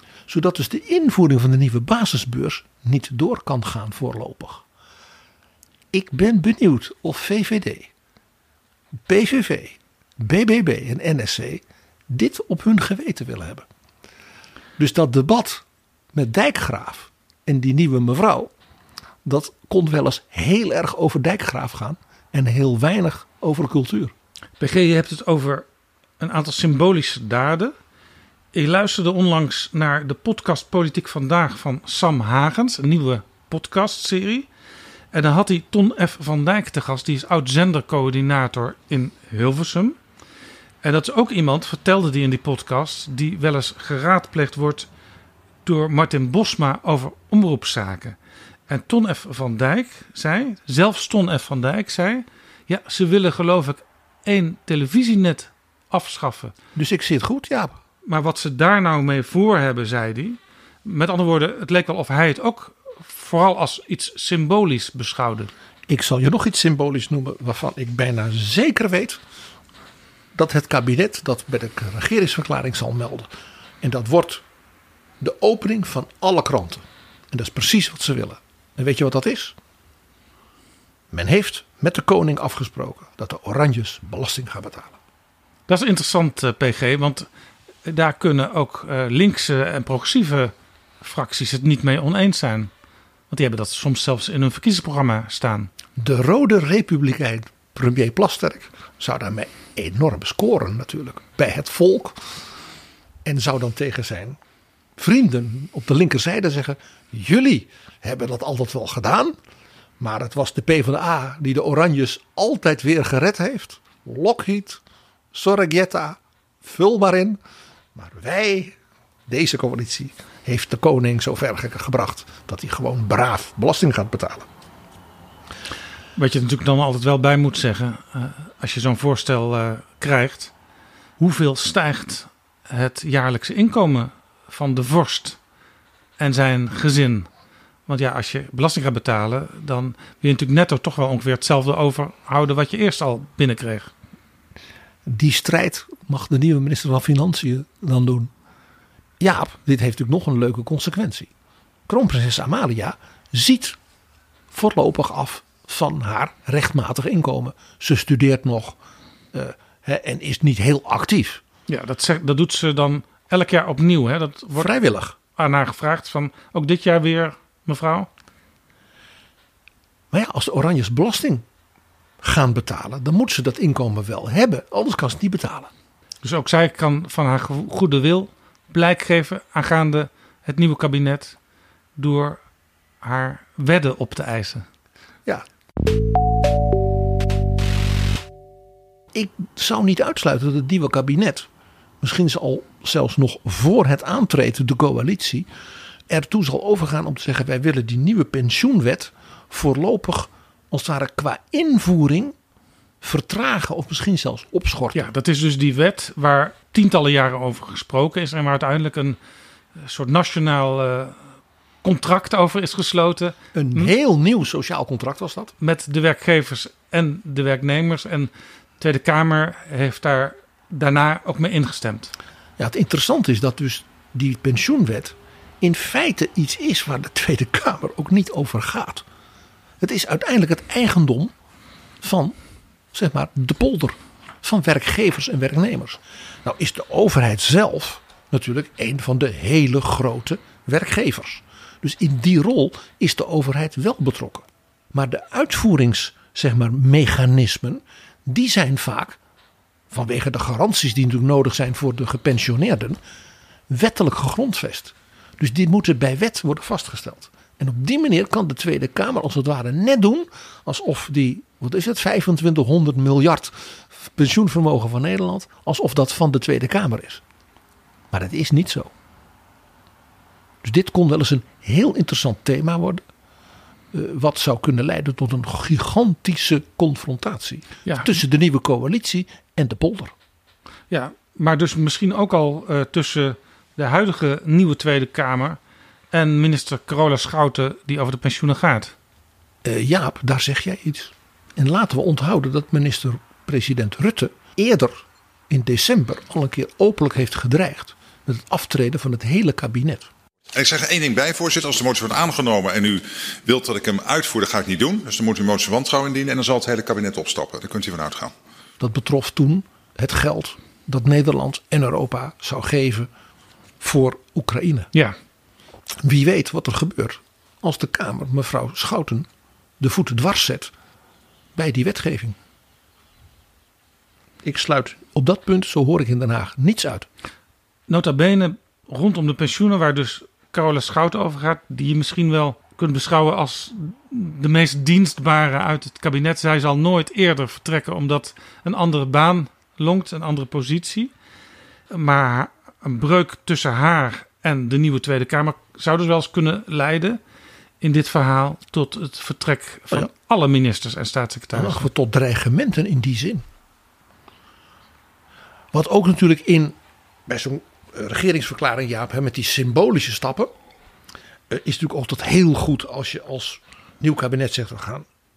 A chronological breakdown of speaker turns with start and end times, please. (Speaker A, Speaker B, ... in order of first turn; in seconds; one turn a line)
Speaker A: 0.3-4.6
Speaker A: 5.9-7.9
Speaker A: 9.1-13.7
Speaker A: 14.8-18.5
Speaker A: 19.2-24.1
Speaker B: 24.6-25.7
Speaker B: 26.2-27.7
Speaker B: 28.5-34.5
Speaker B: 35.1-40.0
Speaker B: 40.8-44.9
Speaker B: 45.6-48.2
Speaker B: 48.7-56.5
Speaker A: 56.7-57.8
Speaker B: 58.0-65.5
Speaker A: 65.9-69.2
Speaker A: 70.3-73.3
Speaker A: 73.8-74.4
Speaker A: 75.2-79.5
Speaker A: 81.1-85.0
Speaker B: 85.7-87.3
Speaker B: 87.8-92.7
Speaker B: 93.3-95.7
Speaker A: 96.0-102.3
Speaker A: 103.2-104.4
Speaker A: 105.0-109.4
Speaker A: 110.0-114.8
Speaker A: 115.3-117.4
Speaker A: 118.0-124.5
Speaker B: 126.2-130.5
Speaker B: 131.2-135.4
Speaker B: 136.2-137.3
Speaker B: 137.9-143.9
Speaker A: 145.1-148.3
Speaker A: 149.2-151.3
Speaker A: 151.9-153.8
Speaker A: 154.5-158.8
Speaker A: 159.3-161.4
Speaker B: 161.7-164.7
Speaker A: 164.6-165.2
Speaker B: 165.4-168.1
Speaker A: 170.1-171.4
Speaker A: 172.2-175.7
Speaker B: 176.2-181.4
Speaker B: 182.0-182.4
Speaker B: 183.0-184.6
Speaker A: 189.1-191.5
Speaker A: 192.0-195.5
Speaker A: 196.1-202.3
Speaker A: 203.0-205.1
Speaker B: 204.9-209.2
Speaker B: 209.8-211.2
Speaker B: 211.8-213.9
Speaker A: 213.5-215.5
Speaker B: 215.6-222.1
Speaker A: 222.6-229.1
Speaker A: 229.8-231.3
Speaker A: 232.0-232.4
Speaker A: 232.9-249.2
Speaker A: 249.9-253.0
Speaker A: 253.7-267.2
Speaker A: 268.1-268.9
Speaker A: 270.6-273.0
Speaker A: 273.9-280.1
Speaker B: 277.9-278.1
Speaker B: 280.9-285.6
Speaker B: 286.1-288.9
Speaker A: 289.6-300.1
Speaker C: 300.6-308.3
Speaker A: 308.8-313.1
Speaker A: 313.8-314.9
Speaker A: 316.0-319.3
Speaker A: 319.8-320.7
Speaker A: 321.6-322.4
Speaker A: 324.4-327.1
Speaker B: 327.9-341.1
Speaker B: 341.9-347.2
Speaker B: 347.8-351.9
Speaker A: 351.5-353.4
Speaker A: 355.7-356.8
Speaker A: 357.3-360.5
Speaker A: 361.5-365.1